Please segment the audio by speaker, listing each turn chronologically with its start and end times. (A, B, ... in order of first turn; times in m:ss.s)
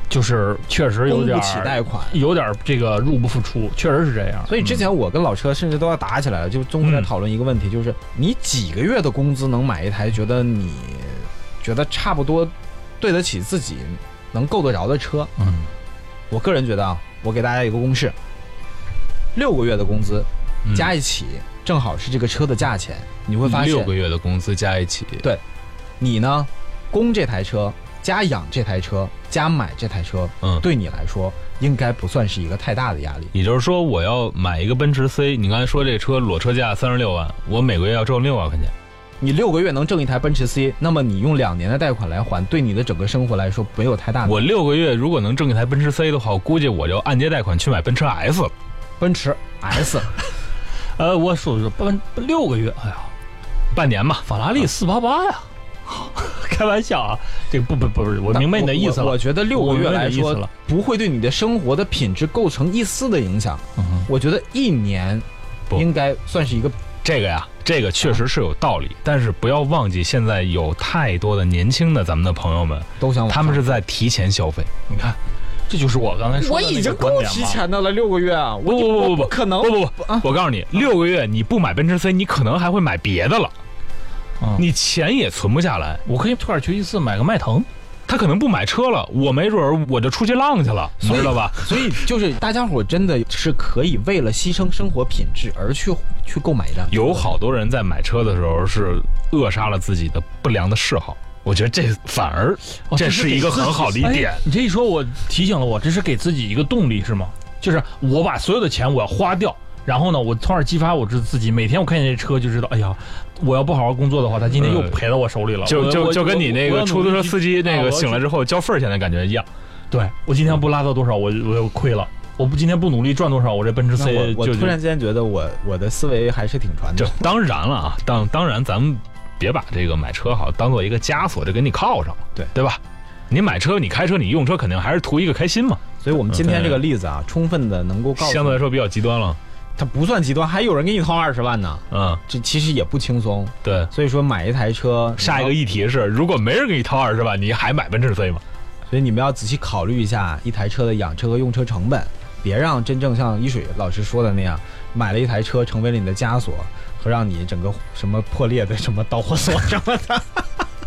0:00.1-0:04.9 A
0:01.1-0:02.2 B
0:04.5-0:15.3 B
0:06.8-0:07.1 C
0:15.4-0:15.7 A
0:16.3-0:18.2 B
0:19.4-0:23.9 B
0:20.7-0:20.9 C
0:23.4-0:25.3 C
0:26.0-0:33.3 B
0:33.3-0:38.7 C
0:39.2-0:44.5 B
0:44.2-0:48.5 C
0:49.0-0:50.1 B
0:51.0-0:53.1 A
0:53.7-0:54.3 C
0:54.2-1:00.5 A
0:58.3-1:06.8 B
1:03.8-1:04.1 A
1:07.0-1:14.7 C
1:13.0-1:13.8 B
1:14.9-1:17.6 A
1:16.3-1:20.3 B
1:18.7-1:23.5 C
1:24.4-1:24.7 A
1:24.6-1:26.0 C
1:26.1-1:27.7 A
1:28.1-1:32.0 C
1:31.0-1:37.3 B
1:36.9-1:44.4 C
1:42.9-1:58.2 A
1:54.6-1:55.0 C
1:55.6-1:59.5 C
1:59.9-2:04.8 A
2:04.0-2:07.3 B
2:07.0-2:16.9 C
2:16.0-2:18.6 B
2:18.2-2:19.4 C
2:19.8-2:25.6 B
2:21.9-2:22.2 C
2:23.6-2:23.9 C
2:25.2-2:28.4 C
2:28.9-2:40.6 B